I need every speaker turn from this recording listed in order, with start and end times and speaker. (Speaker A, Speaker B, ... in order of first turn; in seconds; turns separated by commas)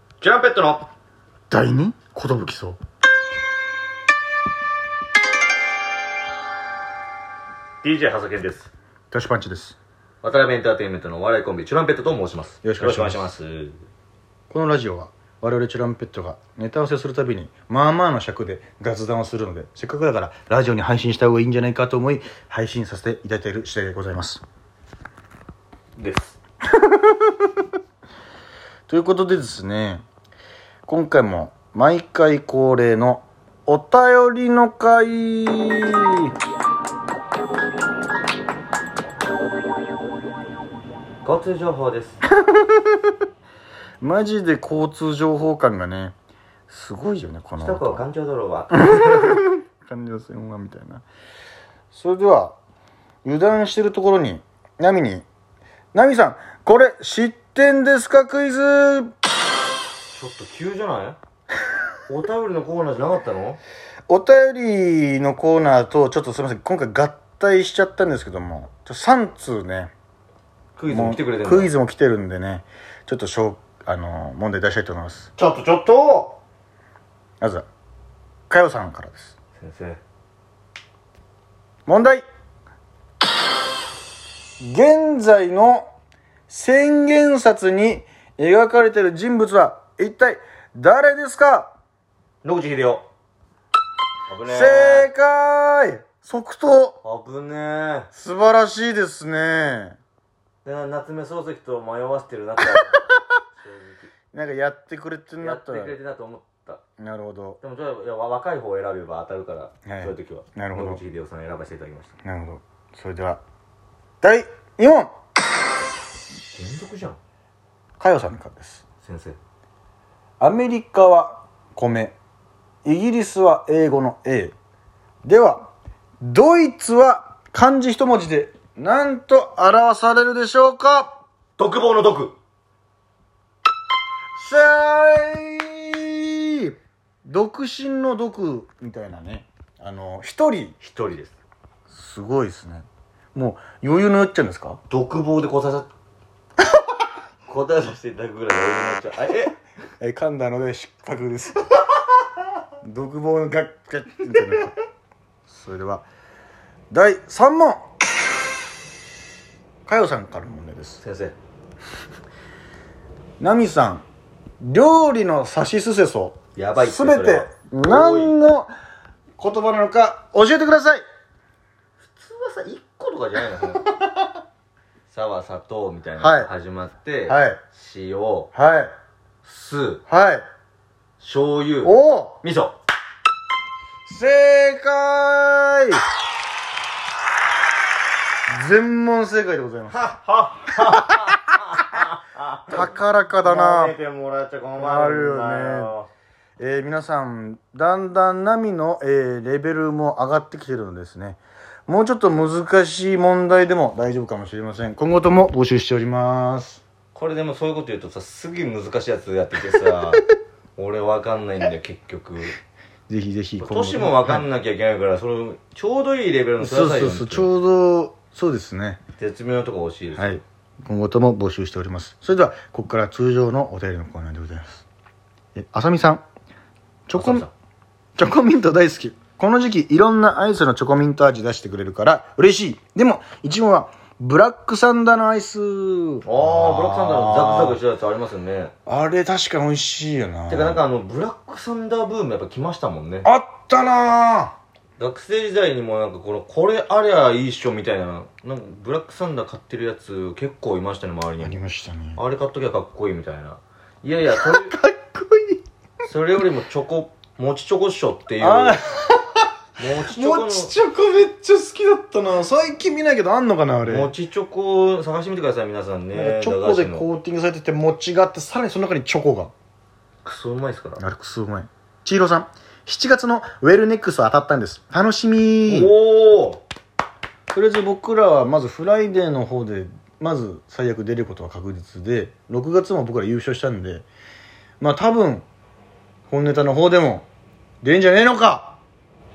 Speaker A: 0.2-0.9, Speaker B: 1.5-2.8, Speaker A: 7.8-8.7, Speaker B: 9.1-9.8, Speaker A: 10.2-13.8, Speaker B: 12.6-13.3, Speaker B: 14.5-24.4, Speaker A: 26.0-26.4, Speaker B: 26.7-27.2, Speaker B: 28.9-30.1, Speaker B: 30.9-36.3, Speaker A: 41.2-42.2, Speaker B: 42.3-43.1, Speaker B: 44.0-46.1, Speaker B: 46.7-48.0, Speaker A: 47.6-49.5, Speaker B: 48.9-51.0, Speaker B: 51.9-52.6, Speaker B: 53.2-55.2, Speaker B: 55.9-59.1, Speaker A: 60.1-61.2, Speaker A: 62.1-63.6, Speaker B: 64.1-69.9, Speaker A: 70.8-71.7, Speaker B: 70.9-75.3, Speaker A: 75.4-76.4, Speaker B: 77.4-77.7, Speaker B: 78.5-79.3, Speaker A: 79.6-80.0, Speaker B: 81.9-82.2, Speaker B: 84.6-85.9, Speaker B: 86.5-91.7, Speaker A: 92.4-93.0, Speaker A: 94.3-95.1, Speaker B: 94.5-97.0, Speaker A: 97.0-98.1, Speaker B: 98.1-100.0, Speaker A: 100.7-103.0, Speaker A: 103.6-104.1, Speaker B: 104.3-106.0, Speaker A: 105.4-106.8, Speaker B: 107.0-107.6, Speaker A: 107.6-112.1, Speaker B: 109.9-111.0, Speaker B: 112.2-113.4, Speaker B: 114.2-115.1, Speaker A: 116.5-117.2, Speaker B: 118.0-118.8, Speaker A: 119.0-119.4, Speaker B: 120.4-122.2, Speaker B: 122.8-124.5, Speaker B: 125.2-125.7, Speaker B: 126.2-131.2, Speaker A: 131.6-132.3, Speaker B: 134.4-136.7, Speaker B: 137.2-140.8, Speaker A: 140.8-141.4, Speaker B: 141.9-144.8, Speaker A: 144.9-145.9, Speaker A: 147.5-149.6, Speaker B: 150.0-151.7, Speaker B: 152.8-154.7, Speaker B: 155.5-156.1, Speaker B: 156.9-157.9, Speaker B: 159.9-161.0, Speaker A: 161.0-161.4, Speaker B: 163.4-164.1, Speaker B: 164.6-168.7, Speaker A: 166.6-168.3, Speaker B: 169.4-171.0, Speaker A: 172.0-173.8, Speaker B: 173.8-174.2, Speaker A: 175.1-178.5, Speaker B: 176.2-176.5, Speaker B: 177.3-177.6, Speaker B: 178.5-178.9, Speaker A: 179.4-180.0, Speaker B: 180.1-180.4, Speaker A: 181.2-182.8, Speaker B: 181.8-182.4, Speaker B: 184.1-186.0, Speaker B: 188.5-190.0, Speaker A: 189.9-196.1, Speaker B: 192.7-193.9, Speaker B: 194.8-195.9, Speaker B: 196.6-206.8, Speaker A: 207.1-210.2, Speaker A: 210.8-212.6, Speaker B: 213.1-214.4, Speaker A: 213.6-217.5, Speaker B: 216.6-219.0, Speaker A: 219.2-220.4, Speaker B: 220.2-224.8, Speaker B: 225.6-226.2, Speaker B: 227.1-227.5, Speaker A: 227.2-227.5, Speaker B: 228.2-237.8, Speaker A: 236.3-238.7, Speaker B: 238.9-240.8, Speaker A: 240.5-243.3, Speaker B: 243.2-244.6, Speaker A: 245.0-251.6, Speaker B: 251.4-252.2, Speaker A: 252.2-254.8, Speaker B: 254.3-255.6, Speaker A: 256.1-258.8, Speaker B: 258.4-259.5, Speaker A: 259.8-260.8, Speaker B: 260.1-264.1, Speaker A: 263.9-267.1, Speaker B: 266.1-269.5, Speaker A: 270.2-271.0, Speaker B: 271.0-275.9, Speaker A: 275.7-276.6, Speaker B: 277.5-284.1, Speaker B: 284.8-285.4, Speaker B: 286.3-287.3, Speaker B: 287.8-288.8